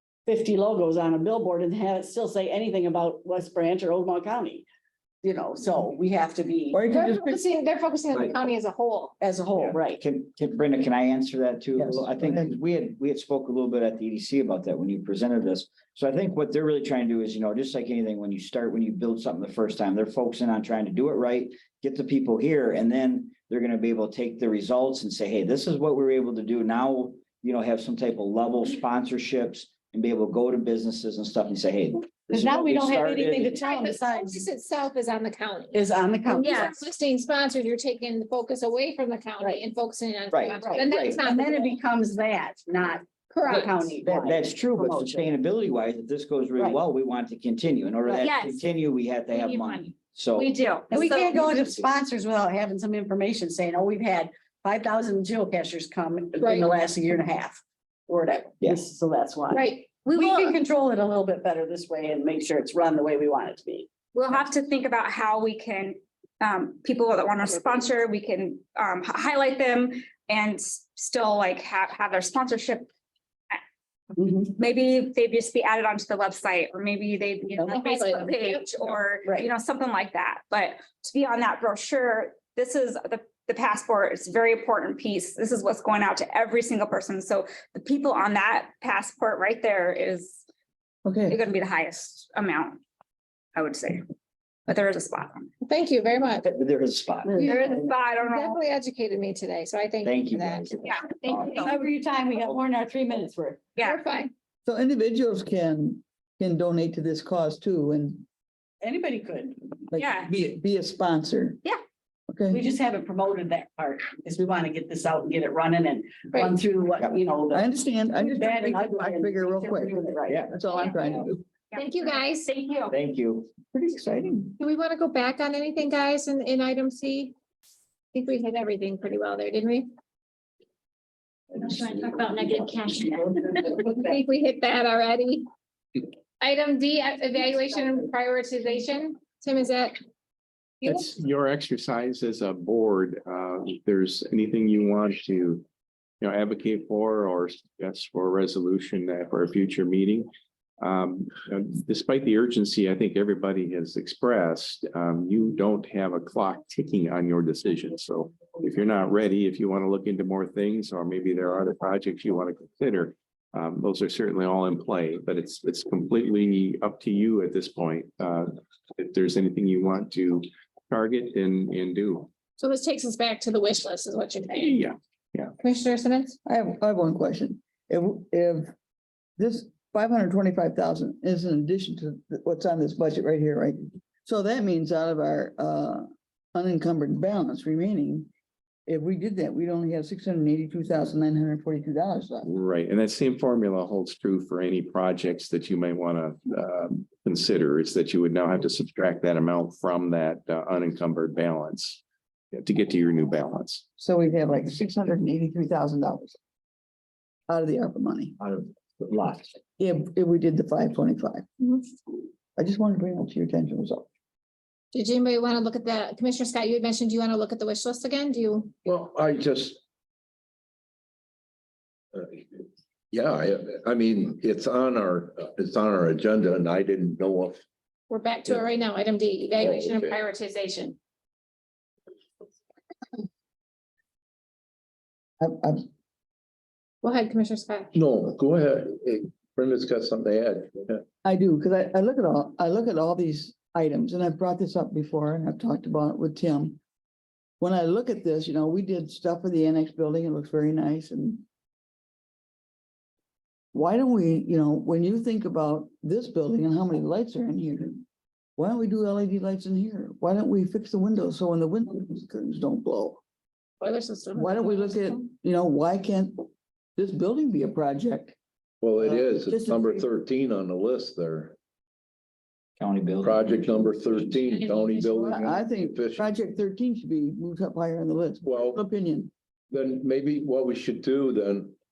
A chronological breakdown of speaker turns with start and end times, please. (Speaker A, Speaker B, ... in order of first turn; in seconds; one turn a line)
Speaker A: 0.2-4.7
Speaker A: 5.2-7.0
Speaker B: 6.7-7.4
Speaker C: 6.9-9.1
Speaker A: 9.2-10.0
Speaker D: 9.9-33.7
Speaker B: 11.8-12.5
Speaker A: 32.3-34.4
Speaker C: 33.5-41.8
Speaker A: 35.7-36.8
Speaker E: 36.4-36.8
Speaker D: 40.3-41.3
Speaker A: 40.6-45.3
Speaker C: 43.3-44.0
Speaker D: 43.5-50.5
Speaker E: 48.1-48.6
Speaker C: 49.3-49.8
Speaker E: 50.3-51.5
Speaker A: 50.9-63.9
Speaker D: 51.2-51.8
Speaker C: 56.4-56.7
Speaker C: 59.5-60.0
Speaker E: 60.0-60.5
Speaker E: 64.1-72.9
Speaker A: 74.1-74.5
Speaker E: 74.5-90.4
Speaker C: 77.6-78.9
Speaker A: 79.2-79.5
Speaker B: 91.0-91.4
Speaker E: 91.3-92.8
Speaker E: 93.5-94.0
Speaker E: 94.7-95.5
Speaker C: 95.6-96.5
Speaker D: 96.4-97.4
Speaker A: 97.2-97.8
Speaker C: 97.3-101.8
Speaker E: 97.4-98.5
Speaker D: 100.0-101.8
Speaker E: 100.8-101.7
Speaker A: 101.6-103.8
Speaker C: 103.8-104.3
Speaker B: 104.7-108.2
Speaker A: 108.8-109.6
Speaker B: 109.9-111.6
Speaker E: 110.0-110.3
Speaker B: 112.3-112.6
Speaker A: 112.5-120.4
Speaker C: 116.3-116.6
Speaker B: 117.5-119.9
Speaker D: 120.3-120.5
Speaker B: 120.5-121.4
Speaker E: 120.7-122.9
Speaker C: 121.7-122.5
Speaker D: 122.9-123.5
Speaker B: 123.7-124.5
Speaker C: 124.6-127.3
Speaker C: 128.1-129.9
Speaker C: 131.5-135.4
Speaker C: 136.4-140.0
Speaker F: 140.8-145.6
Speaker F: 146.2-150.3
Speaker F: 150.8-172.3
Speaker C: 172.6-174.8
Speaker F: 174.5-175.5
Speaker C: 175.6-176.3
Speaker B: 176.4-178.7
Speaker B: 179.4-188.3
Speaker B: 188.9-192.5
Speaker F: 192.4-202.0
Speaker F: 202.5-203.8
Speaker B: 204.0-206.4
Speaker B: 207.5-208.3
Speaker D: 208.4-209.5
Speaker B: 209.8-211.7
Speaker B: 212.5-214.1
Speaker C: 214.9-218.7
Speaker G: 218.8-219.8
Speaker G: 222.1-222.4
Speaker G: 223.1-227.6
Speaker C: 228.1-231.0
Speaker G: 229.6-230.2
Speaker B: 235.4-235.9
Speaker C: 237.0-237.9
Speaker G: 237.9-241.0
Speaker B: 241.2-246.8
Speaker B: 247.6-251.4
Speaker B: 253.7-258.0
Speaker B: 258.6-263.2
Speaker C: 263.8-265.0
Speaker B: 264.4-268.4
Speaker G: 268.8-271.6
Speaker B: 269.0-270.1
Speaker D: 272.8-274.2
Speaker G: 273.2-276.2
Speaker C: 274.5-275.1
Speaker B: 275.1-279.3
Speaker G: 278.4-278.8
Speaker G: 279.7-281.7